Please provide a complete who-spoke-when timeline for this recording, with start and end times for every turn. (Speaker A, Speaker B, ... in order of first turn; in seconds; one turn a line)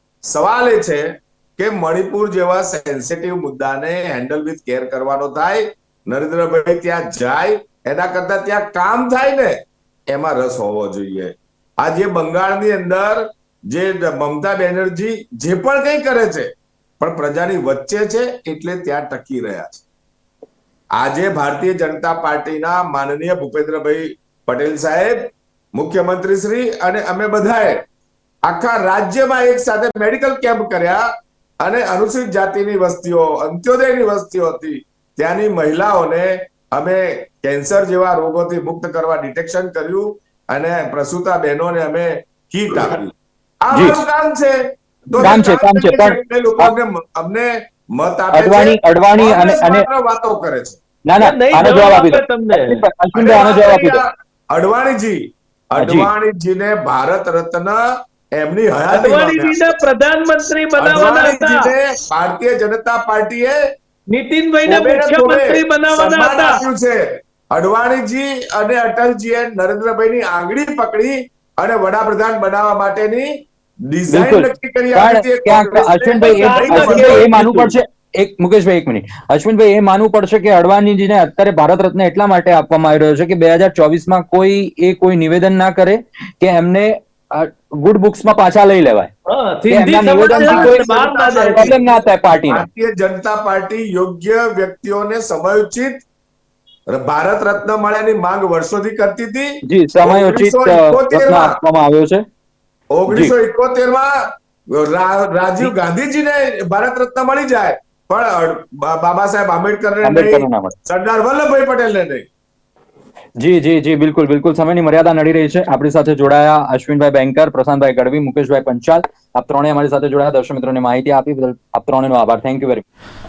Speaker A: 0.3-19.8
Speaker A: 21.0-27.8
Speaker A: 28.5-31.1
Speaker A: 31.6-50.8
Speaker B: 43.7-44.0
Speaker B: 45.2-46.7
Speaker B: 48.3-49.9
Speaker B: 51.1-54.0
Speaker C: 51.2-52.8
Speaker A: 53.1-57.8
Speaker B: 55.8-56.1
Speaker A: 58.3-59.8
Speaker C: 58.9-61.7
Speaker A: 60.8-63.6
Speaker C: 64.1-66.6
Speaker A: 64.7-77.3
Speaker B: 74.1-89.1
Speaker C: 76.2-77.7
Speaker C: 89.3-91.8
Speaker B: 89.7-92.7
Speaker A: 90.3-96.0
Speaker A: 96.9-101.6
Speaker B: 99.7-102.2
Speaker A: 102.9-112.3
Speaker B: 103.1-103.3
Speaker B: 110.0-110.8
Speaker B: 113.4-122.8